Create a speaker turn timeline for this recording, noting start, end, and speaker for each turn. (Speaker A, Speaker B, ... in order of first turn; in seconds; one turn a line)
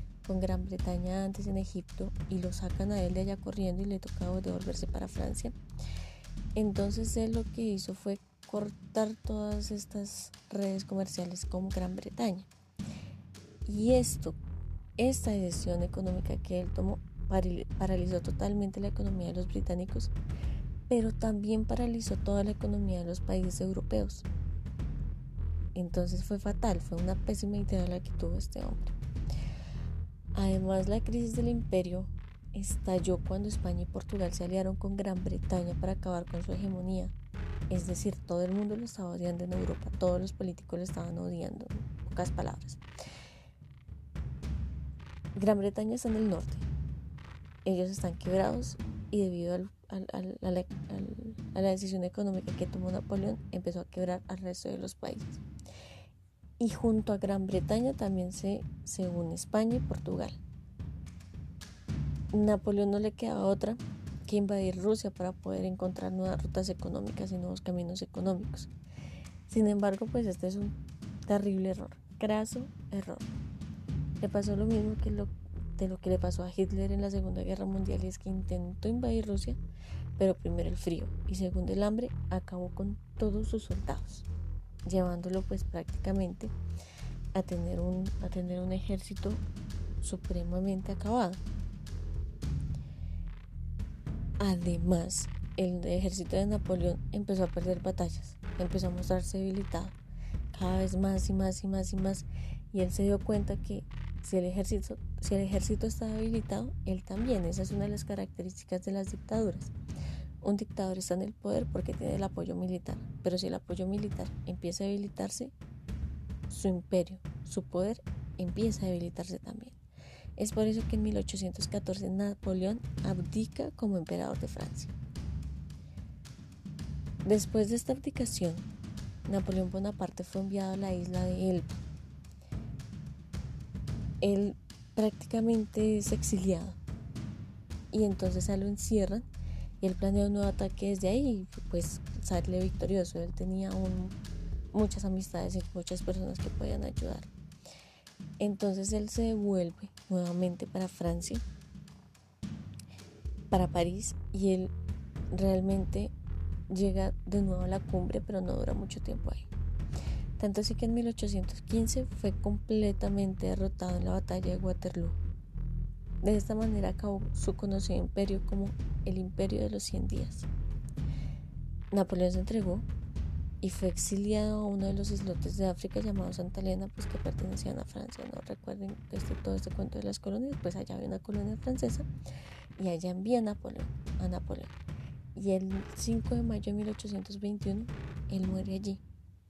Speaker A: 0.2-5.5
Speaker A: 6.5-12.5
Speaker A: 13.7-14.4
Speaker A: 15.0-20.1
Speaker A: 20.9-24.2
Speaker A: 25.7-29.0
Speaker A: 30.3-37.1
Speaker A: 37.7-42.8
Speaker A: 45.3-46.7
Speaker A: 47.6-55.4
Speaker A: 56.6-60.4
Speaker A: 62.3-68.7
Speaker A: 69.5-70.8
Speaker A: 71.3-73.3
Speaker A: 74.2-79.6
Speaker A: 80.2-84.3
Speaker A: 84.8-86.5
Speaker A: 87.3-89.4
Speaker A: 90.0-91.4
Speaker A: 94.4-100.0
Speaker A: 100.5-109.7
Speaker A: 110.4-115.5
Speaker A: 116.5-119.8
Speaker A: 120.4-124.9
Speaker A: 127.2-128.7
Speaker A: 129.2-131.7
Speaker A: 134.2-136.8
Speaker A: 137.9-139.3
Speaker A: 139.8-144.2
Speaker A: 144.7-147.3
Speaker A: 148.4-151.4
Speaker A: 153.5-154.7
Speaker A: 155.3-156.1
Speaker A: 156.7-159.5
Speaker A: 160.4-165.2
Speaker A: 166.2-170.5
Speaker A: 171.9-172.9
Speaker A: 173.6-182.1
Speaker A: 182.8-184.7
Speaker A: 185.3-189.0